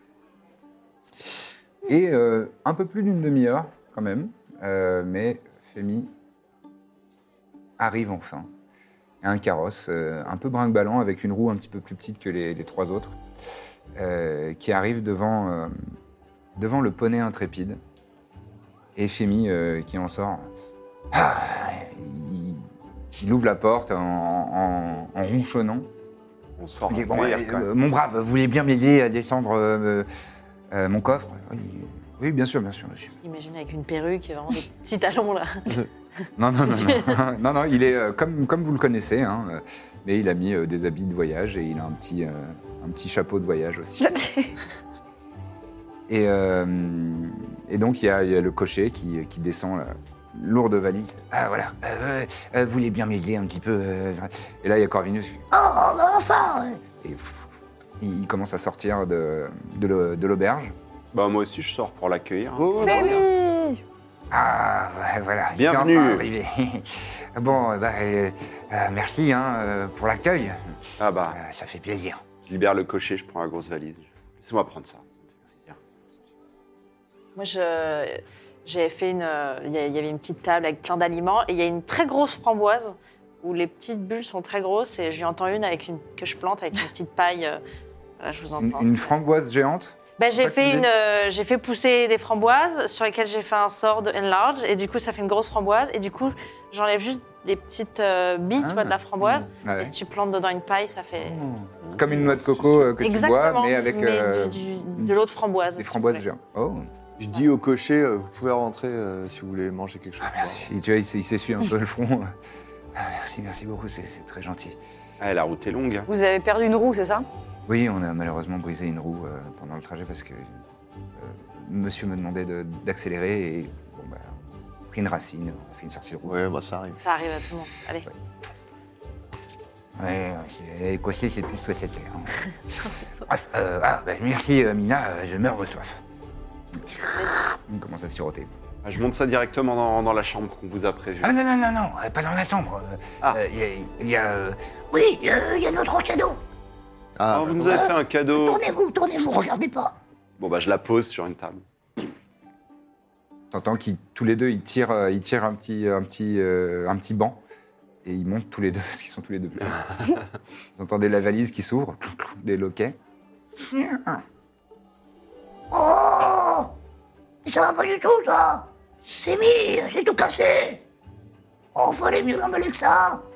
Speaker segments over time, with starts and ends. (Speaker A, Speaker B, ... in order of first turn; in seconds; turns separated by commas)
Speaker A: 1.9-6.1, Speaker A: 7.8-8.5, Speaker A: 9.2-13.2, Speaker A: 13.9-15.8, Speaker A: 16.6-17.8, Speaker A: 19.0-20.5, Speaker A: 21.1-22.7, Speaker A: 23.2-25.9, Speaker B: 26.6-27.7, Speaker A: 26.9-30.1, Speaker A: 30.7-33.2, Speaker C: 33.2-35.8, Speaker A: 36.4-44.2, Speaker C: 36.7-37.2, Speaker D: 44.0-44.5, Speaker A: 46.1-55.5, Speaker E: 55.5-56.9, Speaker A: 57.0-60.8, Speaker B: 61.1-63.2, Speaker F: 62.6-63.2, Speaker D: 62.8-63.8, Speaker A: 64.3-70.8, Speaker B: 65.5-66.3, Speaker B: 71.0-71.4, Speaker A: 71.3-72.2, Speaker B: 72.5-75.8, Speaker C: 77.4-87.6, Speaker C: 88.2-89.1, Speaker A: 88.6-90.9, Speaker C: 90.2-101.4, Speaker A: 98.6-99.9, Speaker A: 101.2-105.1, Speaker B: 101.8-102.9, Speaker C: 103.0-106.2, Speaker A: 105.8-106.9, Speaker F: 107.2-110.7, Speaker A: 110.2-112.3, Speaker A: 113.0-114.8, Speaker B: 115.2-116.1, Speaker D: 116.1-117.3, Speaker A: 117.7-120.6, Speaker A: 121.2-124.4, Speaker A: 124.9-126.4, Speaker F: 126.2-127.0, Speaker C: 127.0-128.1, Speaker A: 130.0-132.5, Speaker A: 133.3-136.0, Speaker A: 137.5-138.5, Speaker B: 138.8-141.4, Speaker A: 141.2-144.6, Speaker E: 144.9-146.4, Speaker F: 147.2-147.9, Speaker B: 147.3-148.7, Speaker E: 147.6-150.0, Speaker B: 150.4-151.6, Speaker A: 153.5-157.4, Speaker A: 158.1-160.2, Speaker A: 160.8-163.0, Speaker A: 163.7-164.2, Speaker E: 165.7-166.7, Speaker E: 167.4-168.7, Speaker E: 169.2-170.8, Speaker E: 171.7-173.2